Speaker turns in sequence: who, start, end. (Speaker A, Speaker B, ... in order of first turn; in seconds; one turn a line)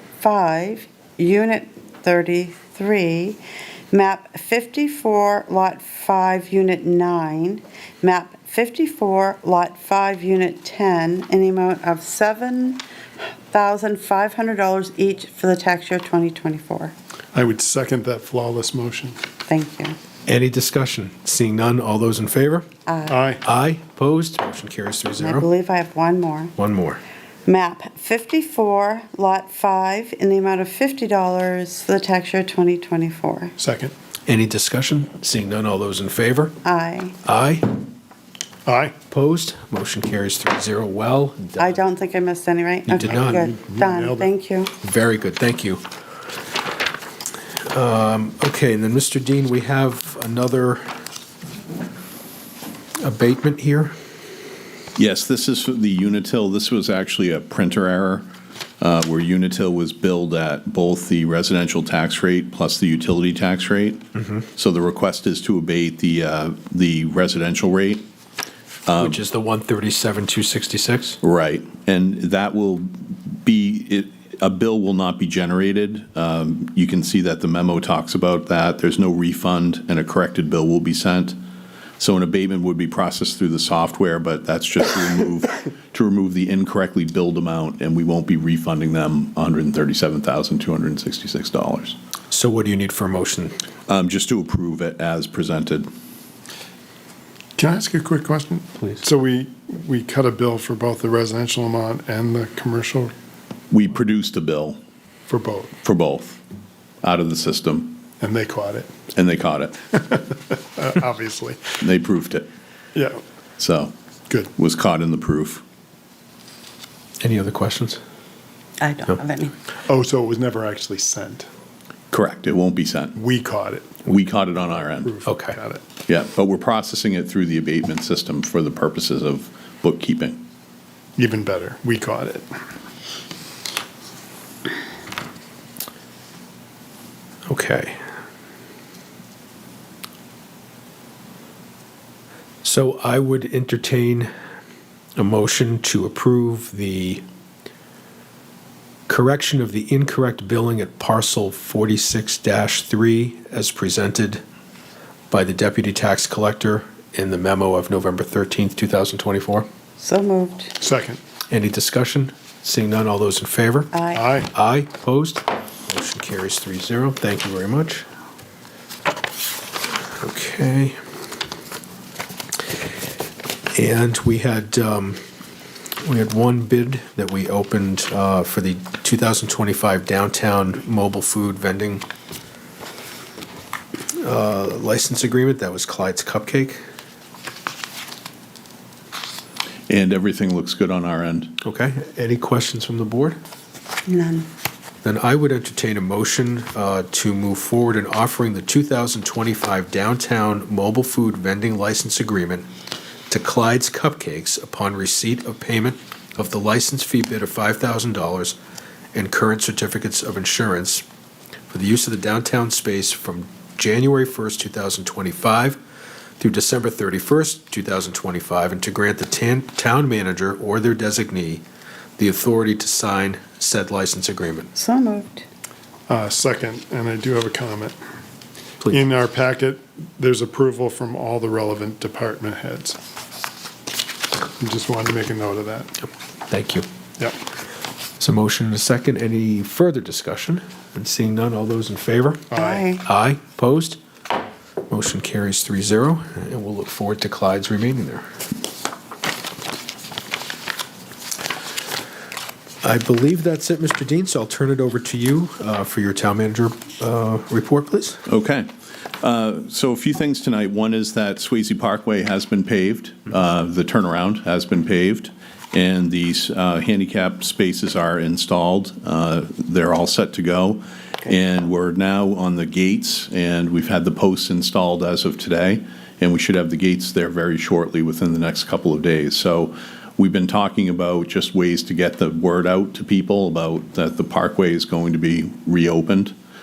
Speaker A: 0.2-3.4
Speaker A: 3.9-12.8
Speaker A: 13.5-16.9
Speaker B: 17.3-19.2
Speaker A: 19.5-20.0
Speaker C: 20.3-22.7
Speaker A: 22.9-23.2
Speaker B: 23.1-23.4
Speaker C: 23.4-25.5
Speaker A: 25.2-26.5
Speaker C: 26.6-27.0
Speaker A: 27.5-33.5
Speaker B: 33.6-33.9
Speaker C: 34.3-36.6
Speaker A: 36.6-37.1
Speaker C: 37.2-37.7
Speaker B: 38.7-39.0
Speaker C: 39.1-41.8
Speaker A: 41.6-44.7
Speaker C: 42.9-43.5
Speaker B: 43.0-44.3
Speaker C: 44.8-45.8
Speaker C: 47.7-50.8
Speaker C: 53.0-53.9
Speaker D: 55.0-58.3
Speaker D: 58.8-68.1
Speaker D: 68.9-69.2
Speaker C: 69.0-71.2
Speaker D: 71.2-81.4
Speaker D: 82.0-92.0
Speaker C: 92.3-93.6
Speaker D: 93.9-95.9
Speaker B: 97.6-103.1
Speaker D: 103.7-104.8
Speaker B: 105.3-105.7
Speaker D: 105.8-106.4
Speaker D: 107.0-108.0
Speaker B: 108.2-108.9
Speaker D: 109.1-110.0
Speaker B: 110.0-111.8
Speaker D: 111.8-112.5
Speaker D: 113.6-113.9
Speaker D: 114.6-115.6
Speaker C: 117.2-118.0
Speaker A: 118.8-119.5
Speaker B: 119.9-121.5
Speaker D: 122.1-123.2
Speaker B: 123.2-124.0
Speaker D: 124.0-125.1
Speaker B: 125.0-125.8
Speaker C: 125.2-125.6
Speaker D: 126.1-130.4
Speaker B: 131.2-132.5
Speaker C: 137.5-138.0
Speaker C: 142.6-144.3
Speaker C: 145.2-147.2
Speaker C: 149.1-154.4
Speaker C: 155.3-159.7
Speaker A: 160.0-160.8
Speaker B: 160.8-161.2
Speaker C: 161.5-163.9
Speaker A: 163.9-164.3
Speaker B: 164.1-164.5
Speaker C: 164.5-168.1
Speaker C: 170.2-171.0
Speaker C: 173.7-175.2
Speaker C: 176.0-182.1
Speaker C: 184.2-186.8
Speaker D: 189.9-191.6
Speaker C: 191.6-193.4
Speaker A: 194.1-194.5
Speaker C: 195.0-202.7
Speaker C: 203.3-208.6
Speaker C: 209.1-211.0
Speaker C: 211.7-215.8
Speaker C: 216.4-221.6
Speaker C: 222.2-224.7
Speaker A: 224.8-225.5
Speaker B: 226.1-228.0
Speaker B: 228.9-233.0
Speaker B: 234.6-235.9
Speaker C: 236.5-236.9
Speaker C: 238.2-244.0
Speaker B: 242.5-242.8
Speaker A: 242.5-243.0
Speaker C: 244.9-248.2
Speaker C: 252.8-258.2
Speaker D: 258.3-258.7
Speaker D: 259.2-286.4